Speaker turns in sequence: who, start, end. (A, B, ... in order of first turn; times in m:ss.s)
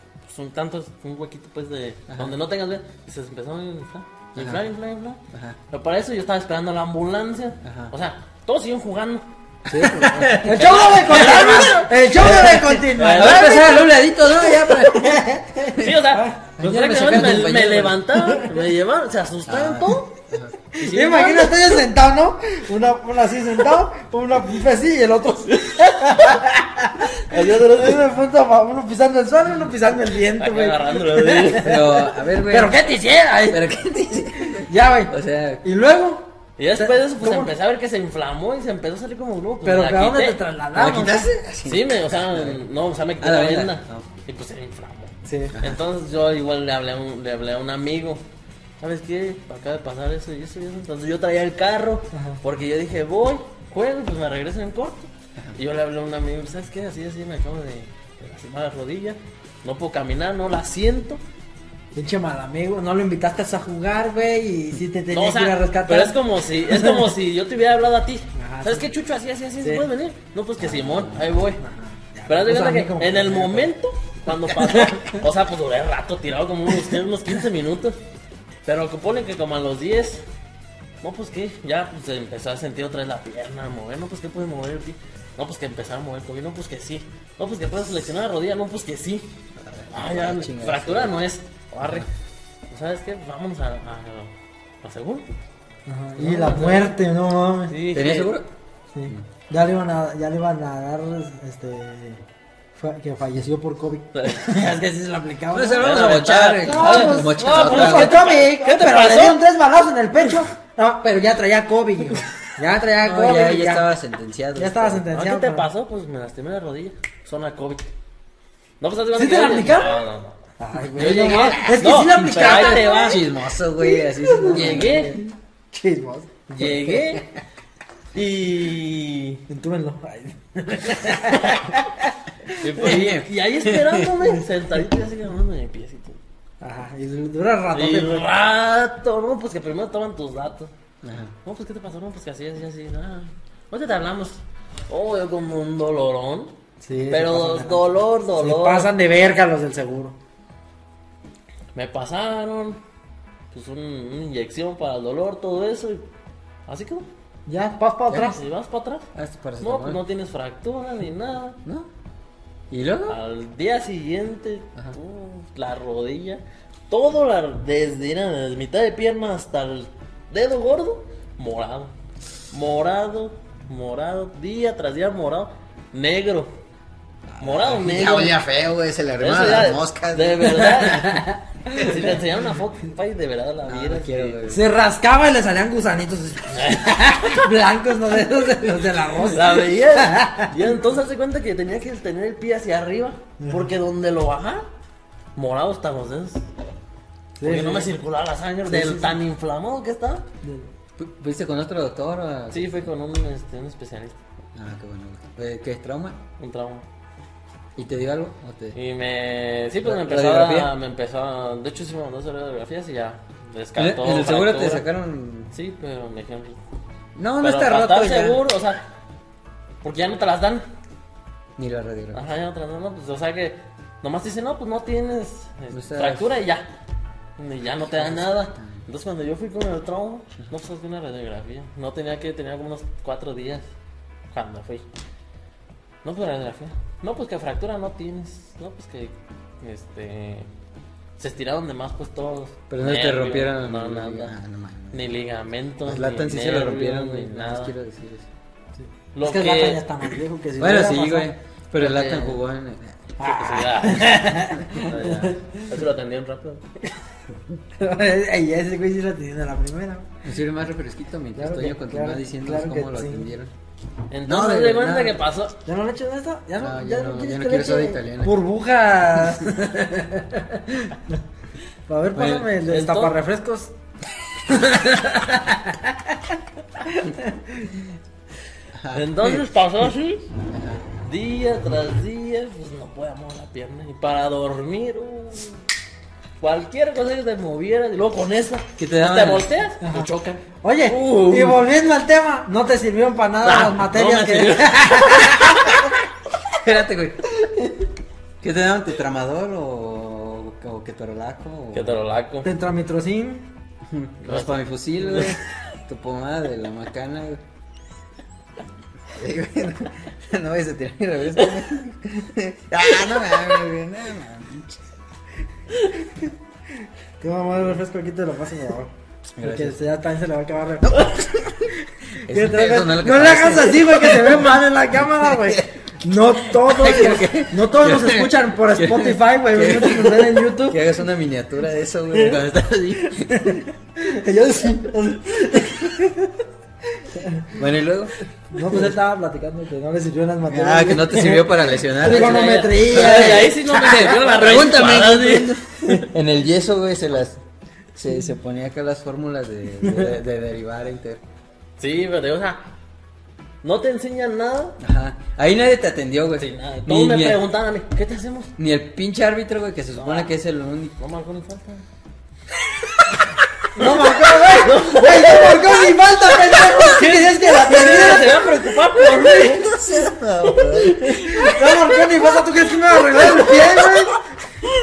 0:00.2-0:05.2 A
0:02.1-0:02.3 B
0:04.4-0:04.6 B
0:05.3-0:05.6 B
0:05.7-0:09.2 A
0:07.6-0:07.9 B
0:09.6-0:15.2 B
0:09.8-0:16.3 C
0:10.5-0:13.9 A
0:15.7-0:20.1 A
0:16.6-0:18.0 B
0:19.5-0:20.5 B
0:20.7-0:33.8 C
0:20.8-0:21.6 A
0:27.1-0:28.0 A
0:30.4-0:31.8 A
0:31.5-0:32.8 B
0:33.5-0:35.6 B
0:34.4-0:37.5 C
0:36.6-0:40.4 A
0:39.6-0:41.2 C
0:40.7-0:42.6 B
0:41.6-0:48.2 A
0:43.2-0:44.1 B
0:45.2-0:45.6 C
0:45.5-0:45.8 B
0:48.8-1:01.2 A
0:52.1-0:52.4 C
1:01.9-1:07.1 C
1:05.1-1:11.6 A
1:08.4-1:08.9 C
1:09.6-1:09.9 C
1:10.6-1:11.3 B
1:11.6-1:13.7 C
1:12.3-1:18.0 A
1:14.5-1:14.9 C
1:18.6-1:20.2 A
1:21.0-1:29.3 A
1:29.6-1:31.1 B
1:29.9-1:32.1 A
1:31.8-1:32.1 B
1:32.7-1:35.2 A
1:35.8-1:37.7 C
1:36.2-1:37.0 A
1:37.7-1:38.3 A
1:37.9-1:38.5 B
1:38.9-1:42.2 C
1:42.8-1:53.9 C
1:44.1-1:44.6 A
1:45.5-1:48.2 B
1:45.8-1:49.4 A
1:53.0-1:55.0 B
1:54.6-1:55.7 C
1:55.1-1:57.9 A
1:58.8-2:00.4 A
1:59.1-2:00.0 C
2:00.6-2:03.2 C
2:01.0-2:03.2 A
2:01.0-2:05.2 B
2:03.8-2:06.3 C
2:04.5-2:05.2 A
2:06.5-2:07.3 A
2:06.6-2:07.2 B
2:08.1-2:09.4 A
2:09.5-2:13.1 C
2:11.4-2:11.6 A
2:12.6-2:16.2 A
2:12.8-2:14.1 B
2:16.6-2:18.3 C
2:17.7-2:20.7 A
2:21.0-2:21.3 B
2:21.4-2:26.5 A
2:26.8-2:30.1 C
2:27.1-2:28.9 A
2:31.7-2:32.8 A
2:33.5-2:36.0 A
2:36.7-2:37.1 A
2:37.5-2:38.4 C
2:38.1-2:38.4 B
2:38.2-2:39.0 A
2:39.1-2:40.0 B
2:39.6-2:41.6 A
2:42.7-2:43.2 B
2:43.1-2:51.9 A
2:52.5-2:56.5 A
2:57.3-3:00.8 B
2:57.4-2:58.4 A
2:59.2-3:04.4 A
3:00.6-3:02.0 C
3:03.7-3:04.6 B
3:04.5-3:10.6 C
3:06.5-3:07.1 A
3:09.3-3:14.7 A
3:13.4-3:13.7 C
3:15.4-3:16.4 A
3:17.4-3:17.9 C
3:17.4-3:20.2 A
3:18.6-3:19.2 C
3:21.0-3:22.9 B
3:22.5-3:24.2 A
3:24.5-3:26.2 B
3:26.4-3:26.8 A
3:27.8-3:28.8 B
3:28.7-3:34.8 A
3:29.8-3:30.7 B
3:33.8-3:35.5 B
3:35.5-3:36.6 A
3:37.2-3:38.4 B
3:37.4-3:38.8 A
3:39.8-3:40.6 A
3:41.6-3:42.2 B
3:42.1-3:46.7 A
3:45.7-3:46.3 B
3:47.4-3:53.7 A
3:47.8-3:48.8 B
3:54.3-3:54.8 A
3:56.0-4:00.5 A
4:01.2-4:04.3 A
4:02.7-4:05.1 B
4:04.9-4:07.7 A
4:05.8-4:08.3 B
4:08.8-4:11.3 C
4:09.1-4:09.8 A
4:10.6-4:13.1 B
4:11.8-4:12.4 A
4:13.2-4:15.8 C
4:13.2-4:16.8 A
4:14.6-4:15.1 B
4:17.8-4:20.0 C
4:20.2-4:23.5 B
4:21.4-4:23.3 C
4:24.1-4:25.6 A
4:24.2-4:25.2 B
4:25.6-4:31.2 C
4:26.6-4:28.4 B
4:31.9-4:33.7 C
4:32.1-4:32.6 B
4:32.6-4:33.1 A
4:34.5-4:36.2 C
4:36.8-4:37.8 C
4:38.7-4:39.4 B
4:38.9-4:40.3 A
4:40.5-4:40.8 B
4:41.0-4:45.6 A
4:46.4-4:51.6 A
4:48.8-4:49.5 B
4:49.8-4:50.1 C
4:50.6-4:55.8 C
4:53.4-4:55.7 A
4:56.4-4:57.5 B
4:58.4-5:02.0 B
5:01.7-5:02.5 A
5:02.4-5:03.5 C
5:03.9-5:07.4 B
5:04.2-5:05.3 A
5:09.1-5:14.8 B
5:16.0-5:16.3 C
5:17.2-5:21.2 C
5:19.4-5:19.8 B
5:20.8-5:24.6 B
5:21.7-5:30.8 C
5:25.2-5:25.7 B
5:26.6-5:33.6 B
5:33.0-5:36.3 C
5:37.0-5:37.5 C
5:37.6-5:38.1 B
5:38.5-5:44.4 C
5:40.5-5:47.4 B
5:42.0-5:45.6 A
5:47.9-5:51.2 B
5:49.8-5:50.2 C
5:51.8-5:52.6 A
5:53.6-5:54.8 A
5:54.8-5:57.4 B
5:56.4-5:58.5 A
5:58.6-6:01.0 B
5:59.9-6:00.3 A
6:01.0-6:01.8 A
6:03.7-6:08.5 C
6:03.9-6:05.8 A
6:06.5-6:09.7 A
6:08.9-6:14.1 B
6:10.6-6:11.2 A
6:10.8-6:14.2 C